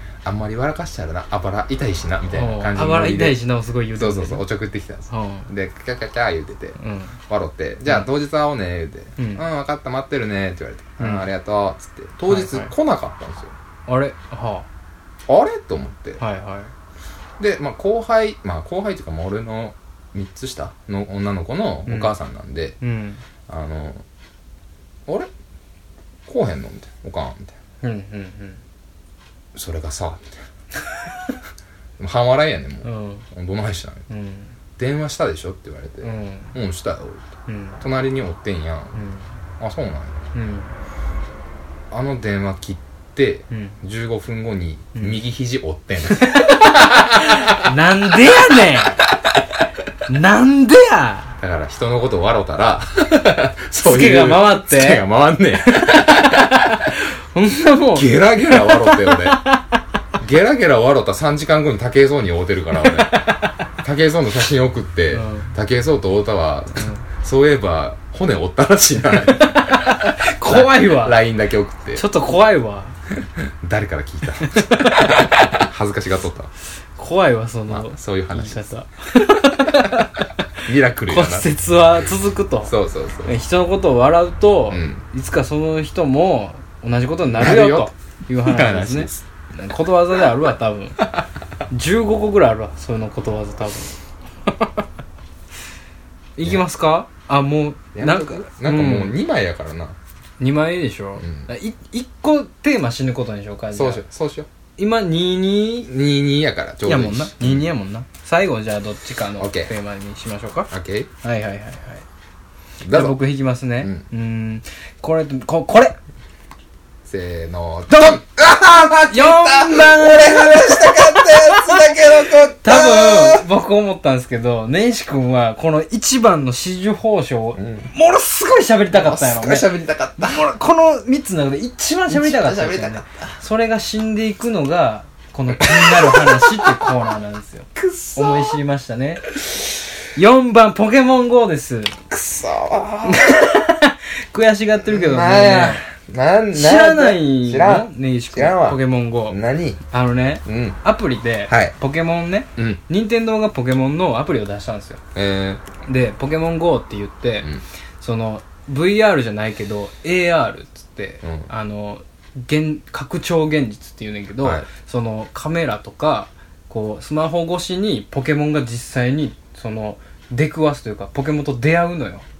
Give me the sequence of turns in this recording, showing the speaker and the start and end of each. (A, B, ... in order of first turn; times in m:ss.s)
0:00.2-0:03.4 A
0:02.3-0:04.4 B
0:04.0-0:06.8 A
0:05.1-0:05.5 B
0:06.8-0:07.2 B
0:07.3-0:13.5 A
0:09.2-0:09.4 B
0:11.0-0:11.3 B
0:12.3-0:12.7 B
0:13.9-0:14.7 B
0:15.3-0:16.2 A
0:16.2-0:16.7 B
0:17.4-0:22.8 A
0:21.9-0:22.1 B
0:22.8-0:23.2 B
0:23.5-0:24.0 A
0:26.3-0:27.6 A
0:27.8-0:28.6 B
0:29.6-0:30.4 A
0:32.0-0:34.1 A
0:32.8-0:33.2 B
0:34.1-0:34.6 B
0:34.8-0:37.3 A
0:36.0-0:36.6 B
0:37.5-0:37.8 B
0:37.8-0:39.0 A
0:38.9-0:39.3 B
0:39.6-0:40.2 A
0:40.3-0:40.7 B
0:41.9-0:47.7 A
0:43.5-0:43.8 B
0:46.2-0:49.0 B
0:48.5-0:48.8 A
0:50.1-0:51.4 B
0:51.4-0:57.0 A
0:53.8-0:55.0 B
0:55.9-0:56.2 B
0:56.8-0:59.8 B
0:57.9-0:59.4 A
1:00.2-1:03.3 A
1:02.8-1:03.6 B
1:03.8-1:12.0 A
1:05.1-1:05.6 B
1:06.8-1:07.0 B
1:09.4-1:11.2 B
1:12.0-1:13.0 B
1:13.4-1:16.5 A
1:14.4-1:15.3 B
1:17.0-1:31.1 B
1:17.7-1:18.7 A
1:19.2-1:20.0 A
1:20.6-1:21.5 A
1:22.7-1:23.4 A
1:24.7-1:25.0 A
1:27.3-1:27.9 A
1:28.4-1:29.2 A
1:31.7-1:34.8 B
1:36.4-1:39.2 B
1:38.0-1:40.0 A
1:40.4-1:44.0 B
1:41.2-1:41.5 A
1:43.7-1:44.5 A
1:44.8-1:45.9 B
1:45.9-1:47.7 A
1:46.8-1:50.7 B
1:49.4-1:49.7 A
1:50.7-1:51.1 A
1:51.2-1:52.0 B
1:52.8-1:53.2 A
1:52.9-1:56.0 B
1:57.0-2:03.5 A
1:57.9-1:58.2 B
1:59.1-2:01.9 B
2:02.6-2:19.4 B
2:07.6-2:07.9 A
2:08.9-2:10.5 A
2:12.1-2:13.3 A
2:15.5-2:16.9 A
2:17.8-2:18.6 A
2:20.1-2:22.0 B
2:22.1-2:23.4 A
2:23.0-2:25.8 B
2:24.8-2:29.8 A
2:26.5-2:29.4 B
2:29.9-2:35.0 B
2:30.4-2:30.8 A
2:31.5-2:31.8 A
2:35.1-2:35.6 A
2:35.9-2:52.2 B
2:41.2-2:41.5 A